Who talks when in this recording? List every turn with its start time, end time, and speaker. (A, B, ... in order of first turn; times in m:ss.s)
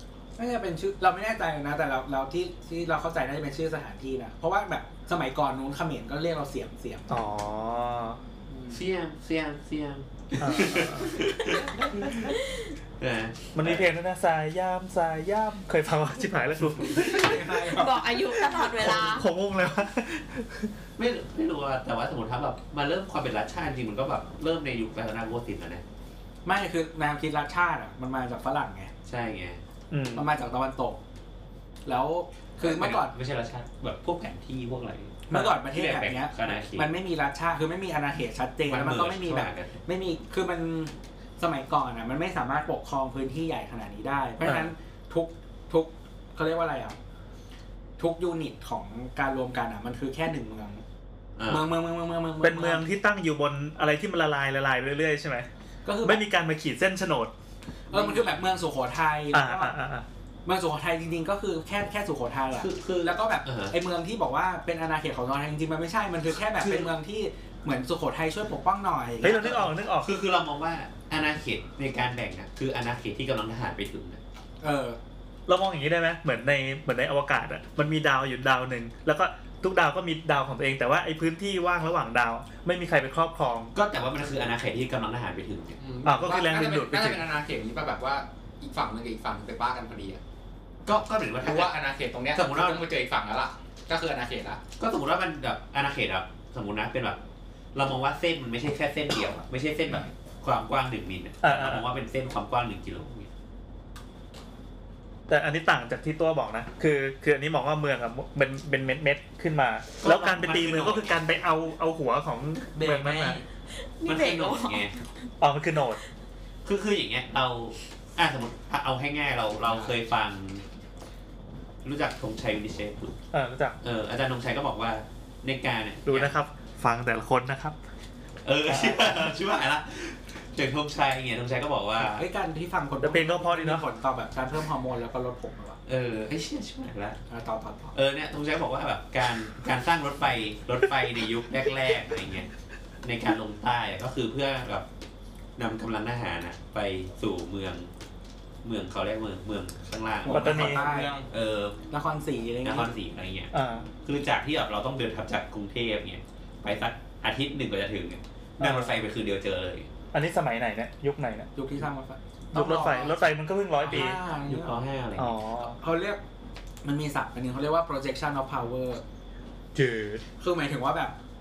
0:00.4-0:07.1 A
0:07.1-0:08.2 B
0:08.7-0:12.4 C
0:10.4-0:11.1 B
0:13.0-0:13.9 C
0:13.5-0:17.4 B
0:16.9-0:17.9 A
0:17.2-0:17.7 D
0:17.6-0:19.2 E
0:18.5-0:20.7 B
0:21.0-0:25.8 C
0:26.4-0:28.9 A
0:29.0-0:29.6 C
0:29.9-0:30.3 B
0:30.1-0:31.0 A
0:31.8-0:33.1 A
0:32.6-0:36.9 C
0:35.3-0:47.0 A
0:35.3-0:35.6 B
0:38.6-0:39.8 C
0:44.4-0:44.7 B
0:48.0-0:50.8 A
0:51.4-0:51.7 C
0:51.5-0:52.8 A
0:52.4-0:55.5 B
0:55.8-0:56.2 A
0:56.0-0:57.3 B
0:57.9-0:58.4 C
0:57.9-0:59.7 A
0:59.3-1:00.0 B
1:00.4-1:09.7 A
1:02.5-1:03.8 C
1:06.5-1:06.9 C
1:09.2-1:10.1 B
1:09.4-1:14.2 C
1:14.6-1:15.0 A
1:15.5-1:23.7 B
1:23.7-1:25.8 C
1:25.8-1:30.2 D
1:26.0-1:27.2 B
1:30.8-1:31.7 C
1:31.4-1:34.6 D
1:32.3-1:32.8 C
1:34.8-1:37.2 C
1:37.7-1:43.3 C
1:41.4-1:41.8 B
1:45.3-1:53.4 B
1:50.0-1:51.2 C
1:52.7-1:53.4 C
1:53.8-1:55.0 E
1:54.0-1:55.0 C
1:55.4-1:56.0 B
1:56.6-2:00.6 C
2:01.8-2:03.2 C
2:03.3-2:03.8 B
2:03.8-2:06.4 C
2:06.0-2:07.8 B
2:08.4-2:12.3 C
2:08.7-2:09.3 B
2:12.0-2:15.8 A
2:13.0-2:13.8 B
2:15.8-2:17.2 C
2:17.3-2:18.0 A
2:17.9-2:22.5 C
2:23.0-2:24.9 C
2:25.6-2:27.9 C
2:28.6-2:31.8 C
2:30.2-2:31.2 A
2:30.3-2:30.9 B
2:30.5-2:31.2 D
2:31.9-2:32.9 A
2:32.6-2:33.5 C
2:33.5-2:33.9 B
2:34.0-2:39.9 C
2:38.6-2:38.9 B
2:40.1-2:41.5 B
2:41.6-2:43.2 A
2:42.5-2:44.2 B
2:43.8-2:44.8 A
2:43.9-2:45.7 C
2:45.2-2:45.8 B
2:45.8-2:46.2 A
2:46.8-2:49.0 A
2:49.7-2:50.2 B
2:50.4-2:51.2 A